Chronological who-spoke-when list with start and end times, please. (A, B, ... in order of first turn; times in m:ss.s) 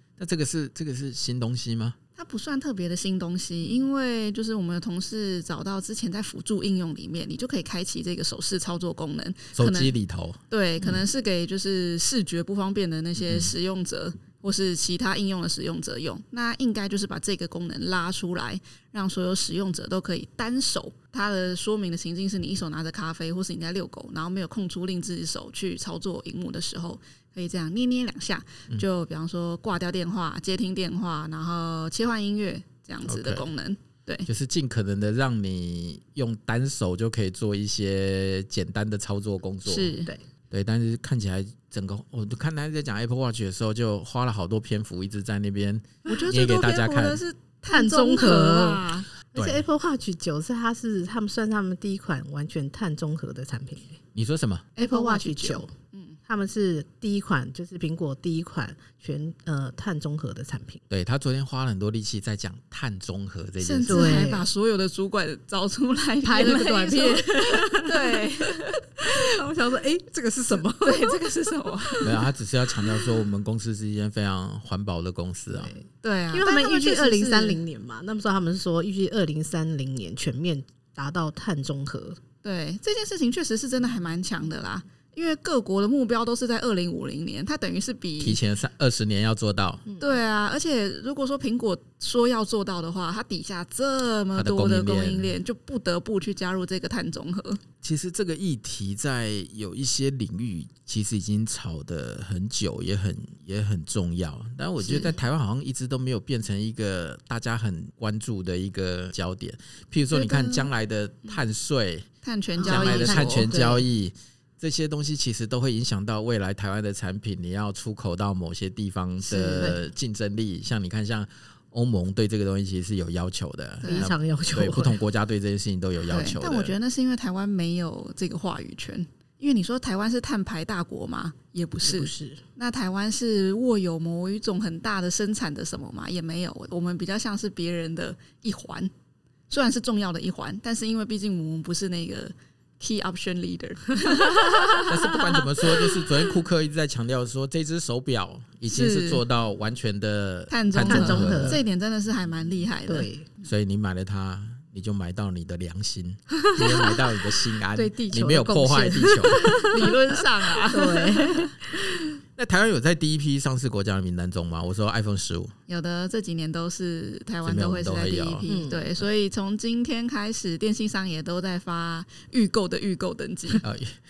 0:00.2-0:02.0 A
0:02.2-0:09.9 B
0:09.5-0:10.4 A
0:10.5-0:34.3 B
0:13.2-0:13.5 A
0:33.0-0:33.5 A
0:34.2-0:40.0 A
0:39.6-0:40.1 B
0:40.5-0:47.2 A
0:46.0-0:49.1 B
0:47.7-0:54.0 C
0:49.3-0:49.6 A
0:54.1-0:54.7 A
0:54.8-0:56.2 B
0:54.8-0:55.7 C
0:56.2-1:00.8 C
1:00.9-1:04.2 A
1:03.6-1:09.2 B
1:03.8-1:04.5 C
1:06.2-1:11.2 C
1:10.8-1:12.2 B
1:11.8-1:12.1 C
1:12.0-1:15.7 A
1:15.5-1:22.2 C
1:16.0-1:17.6 B
1:22.4-1:28.4 B
1:28.2-1:29.8 A
1:30.0-1:37.6 B
1:34.3-1:35.4 A
1:37.8-1:52.1 A
1:50.1-1:50.7 B
1:52.2-1:53.5 B
1:52.6-1:53.8 C
1:52.6-2:06.7 A
1:59.3-1:59.7 B
2:03.8-2:04.1 B
2:03.8-2:05.0 C
2:06.1-2:18.9 B
2:11.8-2:12.4 C
2:19.5-2:25.2 B
2:24.5-2:24.8 C
2:24.8-2:31.6 A
2:28.7-2:29.2 B
2:30.5-2:33.4 B
2:30.8-2:31.6 C
2:32.9-2:33.2 C
2:33.4-2:39.6 A
2:36.6-2:37.0 C
2:37.7-2:42.0 C
2:39.6-2:41.5 B
2:42.4-2:45.5 A
2:45.7-2:53.6 B
2:47.4-2:48.5 A
2:48.4-2:49.0 C
2:53.6-2:54.0 A